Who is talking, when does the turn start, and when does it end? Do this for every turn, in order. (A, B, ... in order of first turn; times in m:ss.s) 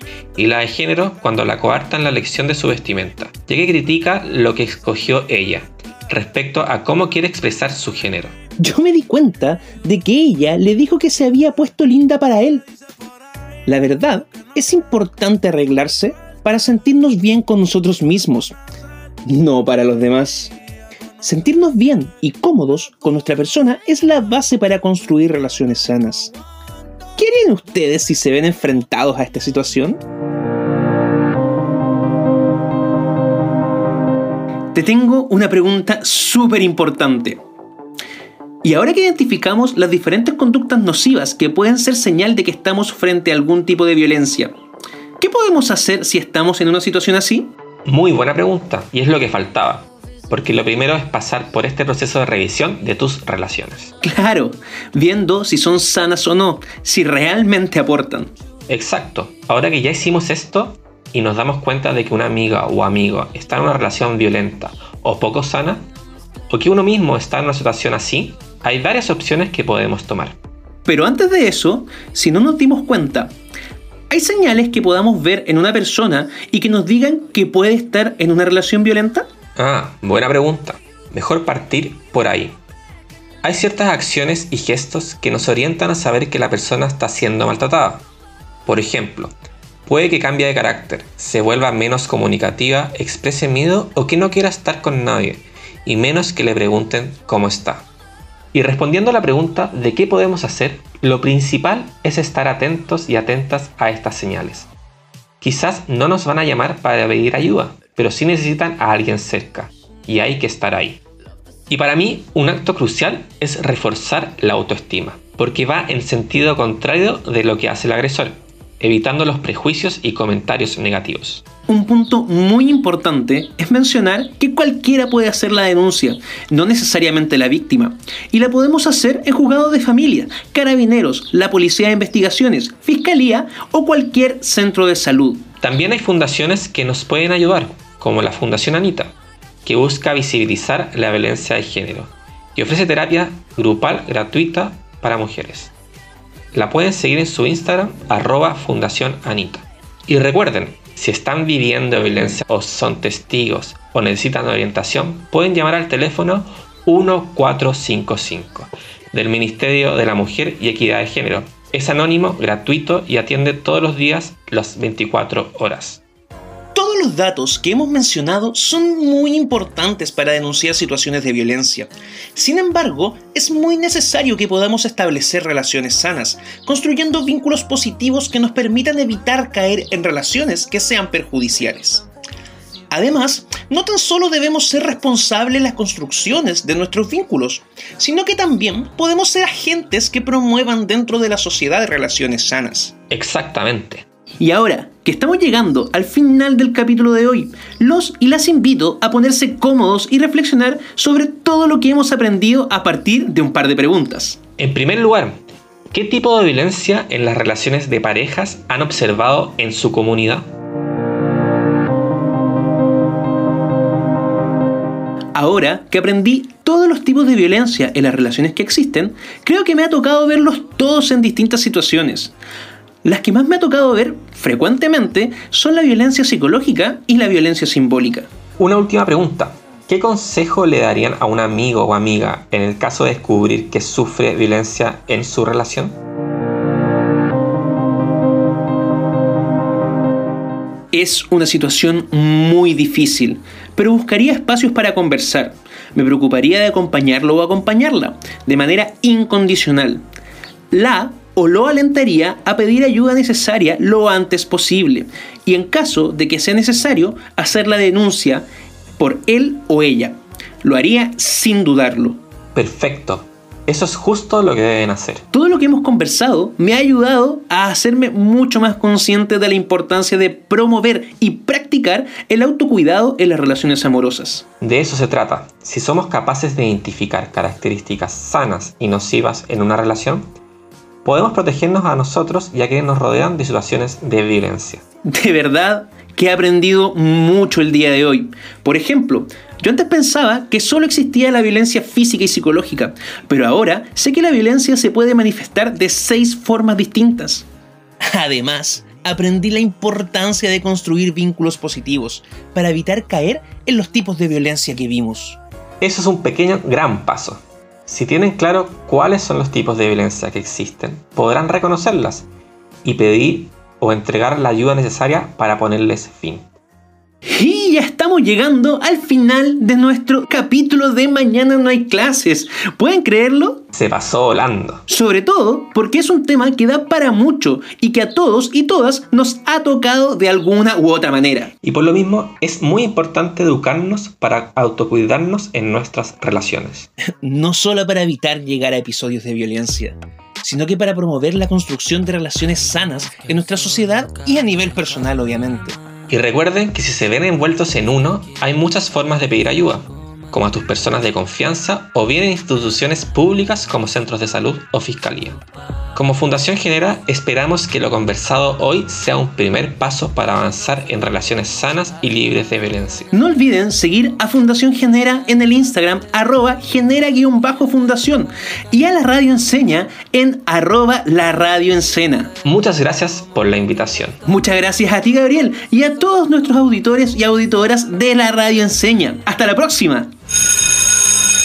0:00.4-0:08.4 A
0:08.6-0:12.6 B
0:13.7-0:18.6 B
0:19.3-0:20.5 B
0:21.2-0:26.3 B
0:27.2-0:30.0 B
0:34.8-0:37.4 B
0:38.6-0:44.5 B
0:45.2-0:47.5 B
0:47.9-0:53.9 A
0:54.0-0:58.3 B
0:58.7-1:05.9 A
1:06.5-1:10.4 A
1:10.9-1:13.3 B
1:14.1-1:19.2 B
1:19.6-1:22.6 A
1:23.4-1:28.0 A
1:28.6-1:29.3 A
1:29.9-1:37.8 A
1:38.5-1:44.7 A
1:45.4-1:51.0 A
1:51.7-2:01.4 A
2:01.7-2:15.5 B
2:15.6-2:19.1 A
2:19.6-2:25.7 A
2:26.5-2:46.0 A
2:46.8-3:02.1 B
3:02.9-3:12.9 B
3:13.1-3:14.0 A
3:14.4-3:24.4 B
3:24.6-3:30.5 A
3:35.4-3:42.3 B
3:43.0-3:48.3 B
3:48.6-3:56.0 A
4:00.9-4:10.0 B
4:10.7-4:18.5 B
4:19.0-4:22.2 B
4:22.5-4:25.2 A
4:25.3-4:34.4 B
4:34.6-4:40.3 A
4:41.0-4:44.8 A
4:45.0-4:57.4 B
4:58.0-5:05.4 B
5:05.8-5:12.3 A
5:12.8-5:16.5 A
5:17.3-5:23.6 B
5:23.7-5:24.8 A
5:24.9-5:31.5 B
5:31.6-5:36.9 A
5:37.2-5:45.8 B
5:46.1-5:55.4 A
5:55.9-6:03.1 A
6:03.1-6:12.4 B
6:12.4-6:14.2 A
6:14.3-6:20.1 B